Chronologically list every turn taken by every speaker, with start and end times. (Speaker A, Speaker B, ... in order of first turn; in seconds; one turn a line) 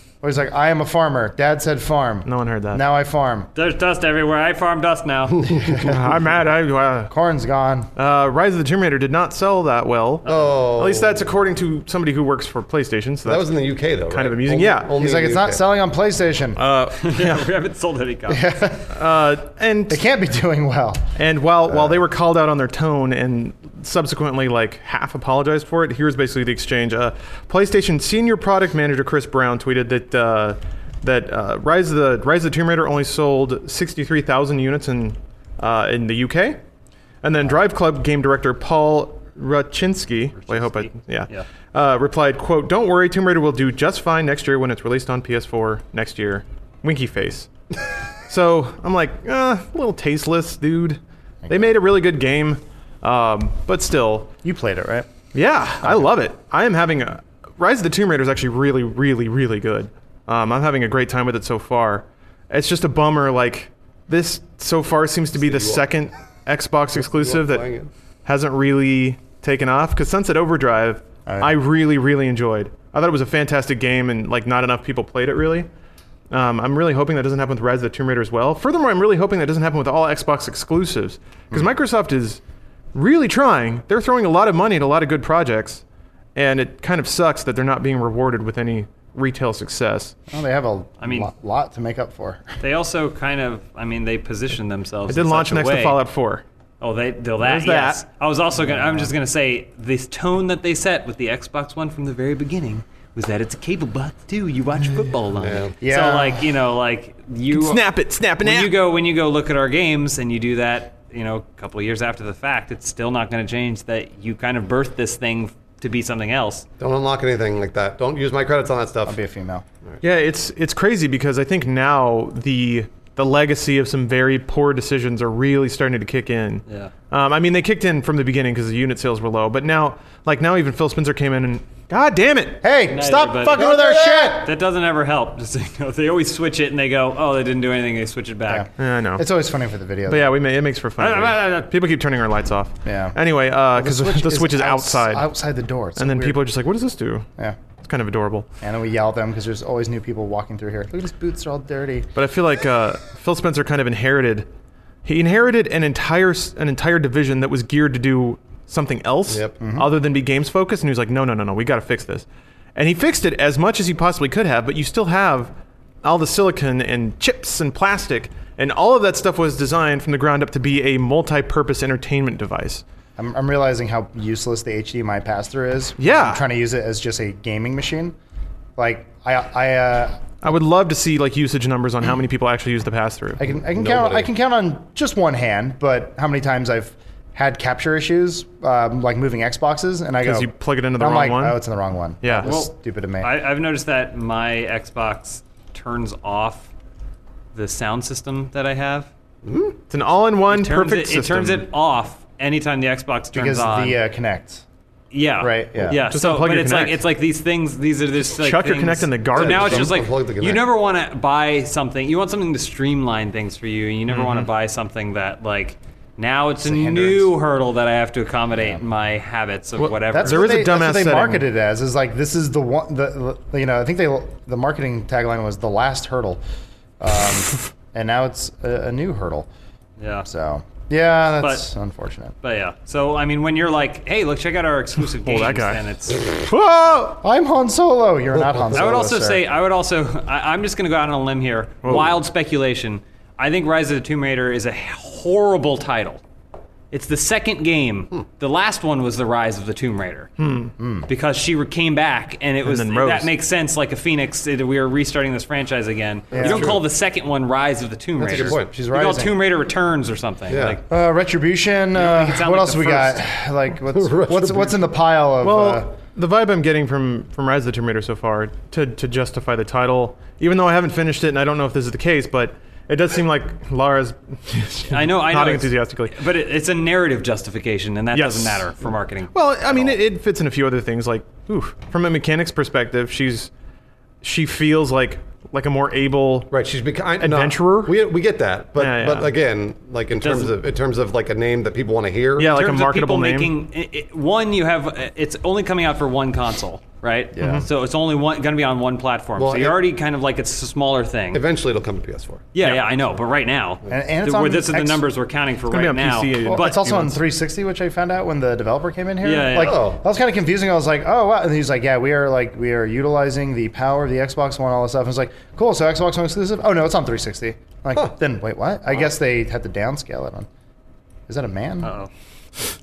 Speaker A: 0.2-3.5
Speaker B: 2.2-2.8
Speaker C: 3.5-5.5
Speaker D: 5.4-5.8
Speaker B: 5.8-7.1
Speaker A: 7.1-7.9
Speaker B: 8.0-13.5
Speaker C: 10.2-10.6
Speaker D: 10.3-11.2
Speaker D: 13.2-15.6
Speaker B: 14.1-15.0
Speaker A: 15.0-16.6
Speaker B: 16.6-17.5
Speaker C: 17.0-18.6
Speaker A: 18.3-18.9
Speaker B: 18.9-20.0
Speaker A: 19.9-21.1
Speaker B: 21.2-36.6
Speaker B: 37.2-47.5
Speaker C: 40.4-41.5
Speaker B: 48.2-54.3
Speaker A: 51.5-51.7
Speaker A: 54.4-55.1
Speaker B: 55.3-67.7
Speaker A: 55.8-56.1
Speaker D: 65.4-65.8
Speaker D: 67.0-67.9
Speaker B: 68.2-75.7
Speaker A: 71.3-71.5
Speaker B: 76.3-82.4
Speaker B: 82.9-85.8
Speaker B: 86.3-90.2
Speaker A: 90.3-92.6
Speaker C: 91.0-91.3
Speaker C: 92.6-96.0
Speaker B: 95.1-96.4
Speaker C: 96.8-107.8
Speaker B: 97.4-98.0
Speaker A: 98.6-99.1
Speaker D: 105.4-105.7
Speaker A: 105.8-106.5
Speaker B: 107.5-108.8
Speaker C: 108.4-116.7
Speaker D: 116.8-119.2
Speaker A: 119.1-119.6
Speaker B: 120.0-132.6
Speaker A: 132.6-134.5
Speaker C: 132.9-138.7
Speaker A: 138.5-140.3
Speaker B: 138.8-139.2
Speaker B: 140.1-145.3
Speaker C: 141.0-141.7
Speaker A: 142.8-143.2
Speaker A: 143.7-146.4
Speaker B: 146.0-147.3
Speaker B: 147.8-148.5
Speaker A: 148.6-152.1
Speaker B: 152.2-154.5
Speaker B: 155.0-165.5
Speaker D: 159.3-159.5
Speaker A: 159.6-159.9
Speaker B: 166.0-172.8
Speaker A: 173.2-178.2
Speaker B: 176.0-176.4
Speaker A: 178.8-180.3
Speaker B: 180.4-183.4
Speaker A: 183.4-193.3
Speaker D: 183.5-184.3
Speaker B: 190.2-191.6
Speaker B: 192.2-192.5
Speaker C: 192.4-196.7
Speaker C: 197.5-199.1
Speaker D: 199.4-199.8
Speaker B: 199.9-201.7
Speaker C: 200.5-204.0
Speaker A: 203.3-204.6
Speaker C: 205.1-220.5
Speaker A: 205.4-206.0
Speaker B: 205.9-207.0
Speaker B: 208.3-210.0
Speaker D: 209.3-210.7
Speaker B: 214.1-214.5
Speaker A: 216.7-217.3
Speaker B: 219.8-221.5
Speaker A: 220.1-226.4
Speaker A: 227.0-229.5
Speaker C: 230.0-230.3
Speaker A: 230.3-232.3
Speaker C: 231.4-231.7
Speaker C: 232.4-236.3
Speaker B: 235.2-237.2
Speaker A: 237.2-239.4
Speaker C: 238.8-246.2
Speaker B: 241.8-242.1
Speaker C: 246.9-250.3
Speaker B: 250.4-250.7
Speaker A: 250.8-251.1
Speaker C: 251.1-260.8
Speaker B: 252.6-253.3
Speaker A: 256.3-256.8
Speaker D: 256.4-256.9
Speaker D: 258.2-258.7
Speaker A: 258.3-259.4
Speaker D: 260.5-260.8
Speaker A: 260.9-266.0
Speaker C: 261.9-263.2
Speaker D: 263.9-264.8
Speaker B: 265.4-276.2
Speaker C: 274.9-280.0
Speaker B: 278.1-278.7
Speaker B: 279.3-283.5
Speaker B: 284.2-286.5
Speaker D: 286.5-292.5
Speaker B: 287.2-288.1
Speaker B: 288.8-289.3
Speaker C: 290.2-290.5
Speaker B: 292.4-293.5
Speaker C: 292.4-301.4
Speaker A: 297.4-297.7
Speaker B: 297.4-297.6
Speaker D: 299.4-299.8
Speaker D: 301.3-302.4
Speaker C: 302.5-306.8
Speaker A: 303.9-305.0
Speaker B: 305.7-307.2
Speaker A: 306.5-320.5
Speaker C: 309.2-309.9
Speaker D: 309.6-310.0
Speaker A: 321.3-321.9
Speaker C: 321.8-322.1